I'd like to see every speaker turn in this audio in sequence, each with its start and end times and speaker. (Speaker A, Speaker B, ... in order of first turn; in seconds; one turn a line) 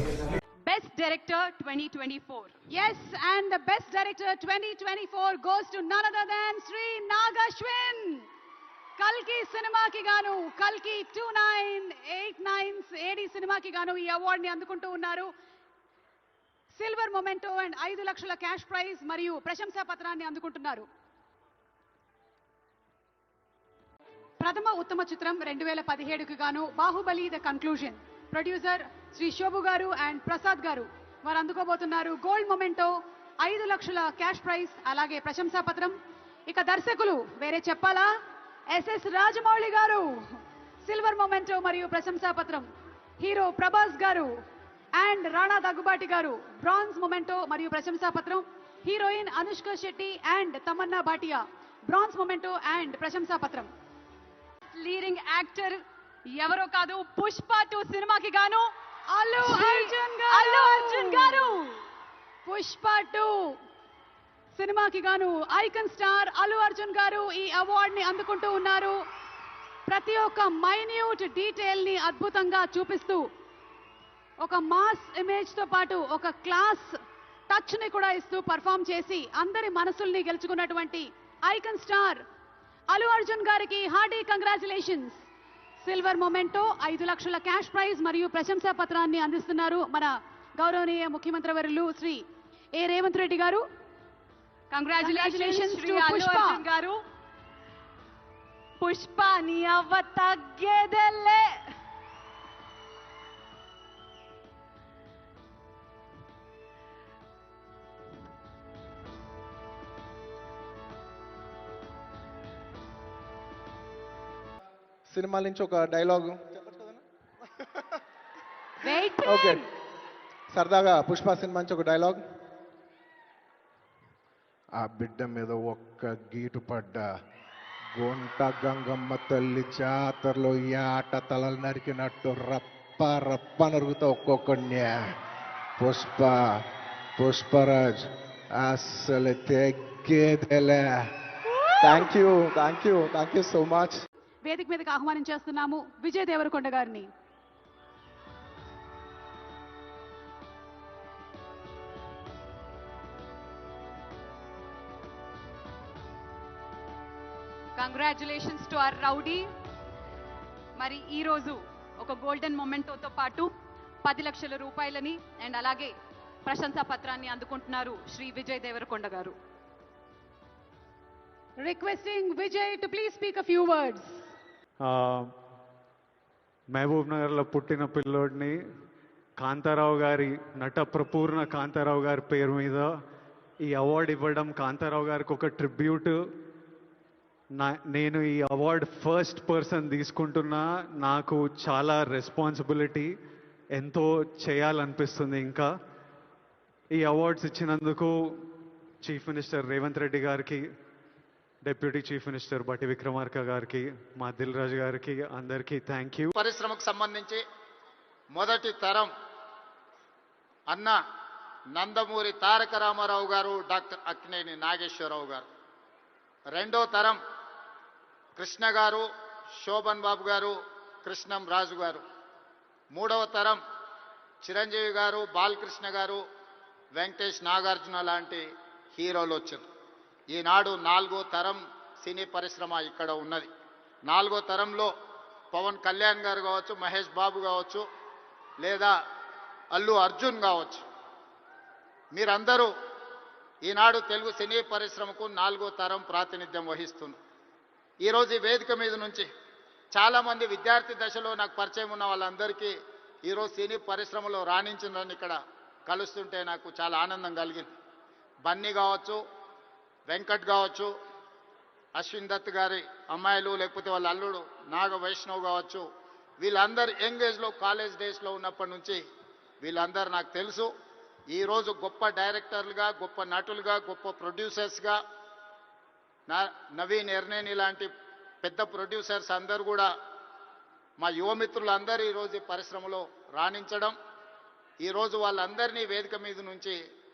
Speaker A: 0.7-2.5
Speaker B: 2.7-8.2
Speaker B: 9.0-15.3
Speaker B: 16.7-20.8
Speaker B: 24.4-35.9
Speaker B: 36.5-38.1
Speaker B: 38.7-40.2
Speaker B: 40.8-42.6
Speaker B: 43.2-44.3
Speaker B: 44.9-53.7
Speaker A: 54.7-55.8
Speaker A: 56.3-58.7
Speaker B: 59.1-61.5
Speaker A: 59.4-61.6
Speaker B: 62.5-63.3
Speaker B: 64.5-69.0
Speaker B: 69.9-73.2
Speaker B: 74.4-76.9
Speaker B: 77.5-82.2
Speaker B: 82.9-85.2
Speaker B: 85.8-92.2
Speaker B: 92.7-93.6
Speaker A: 94.7-97.0
Speaker B: 95.0-96.6
Speaker A: 98.8-101.4
Speaker C: 115.1-117.0
Speaker A: 118.9-119.6
Speaker C: 119.2-119.6
Speaker C: 120.5-122.2
Speaker D: 124.8-127.0
Speaker D: 127.9-135.0
Speaker D: 135.8-136.5
Speaker D: 137.2-138.1
Speaker D: 138.6-140.9
Speaker C: 141.8-144.0
Speaker B: 144.4-147.1
Speaker A: 157.8-159.4
Speaker A: 160.8-163.5
Speaker A: 164.0-165.9
Speaker A: 166.4-169.3
Speaker B: 171.6-174.2
Speaker E: 174.8-175.3
Speaker E: 176.7-178.6
Speaker E: 179.4-182.9
Speaker E: 183.6-186.2
Speaker E: 187.5-193.1
Speaker E: 193.7-195.7
Speaker E: 196.9-198.4
Speaker E: 199.0-200.6
Speaker E: 201.6-206.3
Speaker F: 206.3-207.4
Speaker F: 208.3-209.1
Speaker F: 210.7-211.0
Speaker F: 211.7-215.5
Speaker F: 216.5-217.2
Speaker F: 218.3-222.0
Speaker F: 222.9-223.6
Speaker F: 224.4-226.2
Speaker F: 226.9-229.6
Speaker F: 230.3-233.5
Speaker F: 234.1-234.9
Speaker F: 235.5-237.8
Speaker F: 238.6-238.9
Speaker F: 239.7-240.8
Speaker F: 242.1-242.7
Speaker F: 243.6-247.2
Speaker F: 248.0-249.3
Speaker F: 249.9-257.7
Speaker F: 258.4-259.2
Speaker F: 260.1-260.9
Speaker F: 261.9-265.9
Speaker F: 266.4-269.0
Speaker F: 269.6-270.7
Speaker F: 271.3-275.0
Speaker F: 276.3-277.9
Speaker F: 278.4-279.9
Speaker F: 281.0-283.9
Speaker F: 284.8-286.8